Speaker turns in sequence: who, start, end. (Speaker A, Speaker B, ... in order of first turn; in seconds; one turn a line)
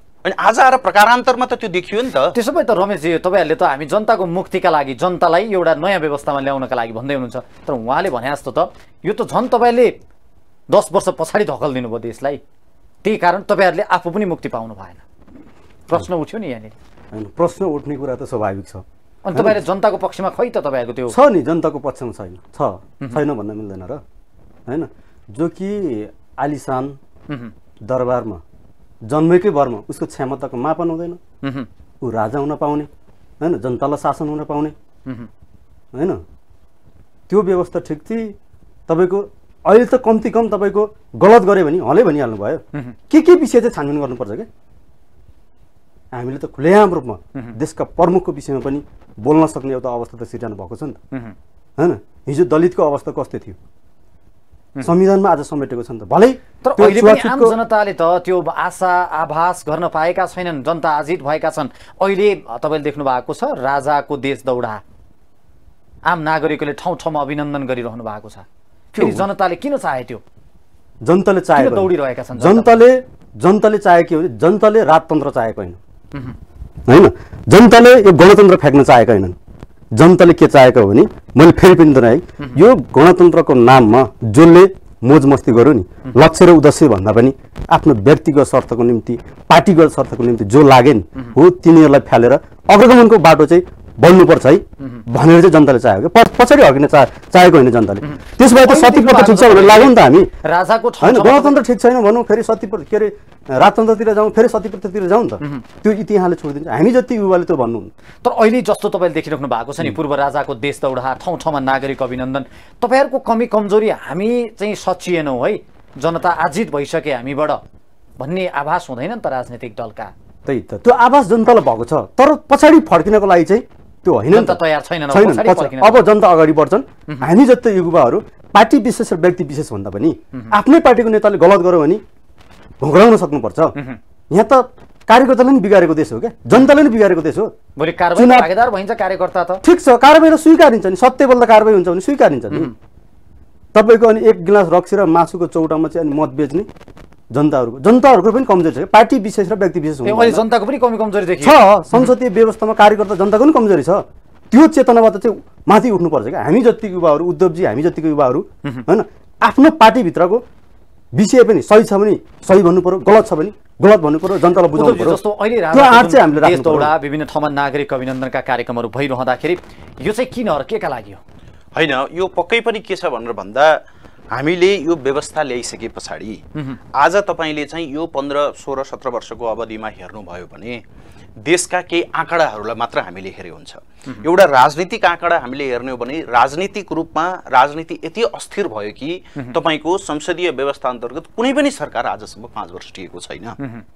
Speaker A: 0.2-2.3
Speaker B: 2.3-9.9
Speaker B: 10.7-12.4
Speaker B: 13.0-15.0
Speaker B: 15.9-16.7
Speaker C: 17.1-19.6
Speaker B: 19.2-21.2
Speaker C: 21.1-24.0
Speaker C: 24.7-27.0
Speaker C: 27.9-28.4
Speaker C: 29.1-31.2
Speaker B: 31.4-31.7
Speaker C: 32.0-32.9
Speaker C: 33.4-34.7
Speaker C: 35.9-36.2
Speaker C: 37.3-38.3
Speaker C: 38.9-44.5
Speaker C: 46.1-51.0
Speaker C: 51.8-53.6
Speaker C: 54.8-57.5
Speaker B: 56.6-64.8
Speaker B: 66.0-70.2
Speaker C: 69.0-69.2
Speaker C: 71.0-75.8
Speaker B: 71.6-72.8
Speaker C: 76.9-79.3
Speaker C: 79.9-100.3
Speaker B: 98.1-101.6
Speaker C: 101.0-107.9
Speaker B: 108.2-117.6
Speaker B: 118.2-120.1
Speaker C: 120.4-132.0
Speaker B: 124.3-126.0
Speaker C: 132.8-133.8
Speaker C: 134.3-137.5
Speaker B: 137.8-139.6
Speaker C: 138.1-138.5
Speaker C: 139.6-142.7
Speaker C: 143.7-146.7
Speaker C: 147.3-150.4
Speaker B: 150.0-152.1
Speaker C: 151.4-160.4
Speaker C: 161.1-165.2
Speaker B: 164.7-171.2
Speaker C: 165.7-166.9
Speaker A: 171.8-180.8
Speaker A: 181.4-193.6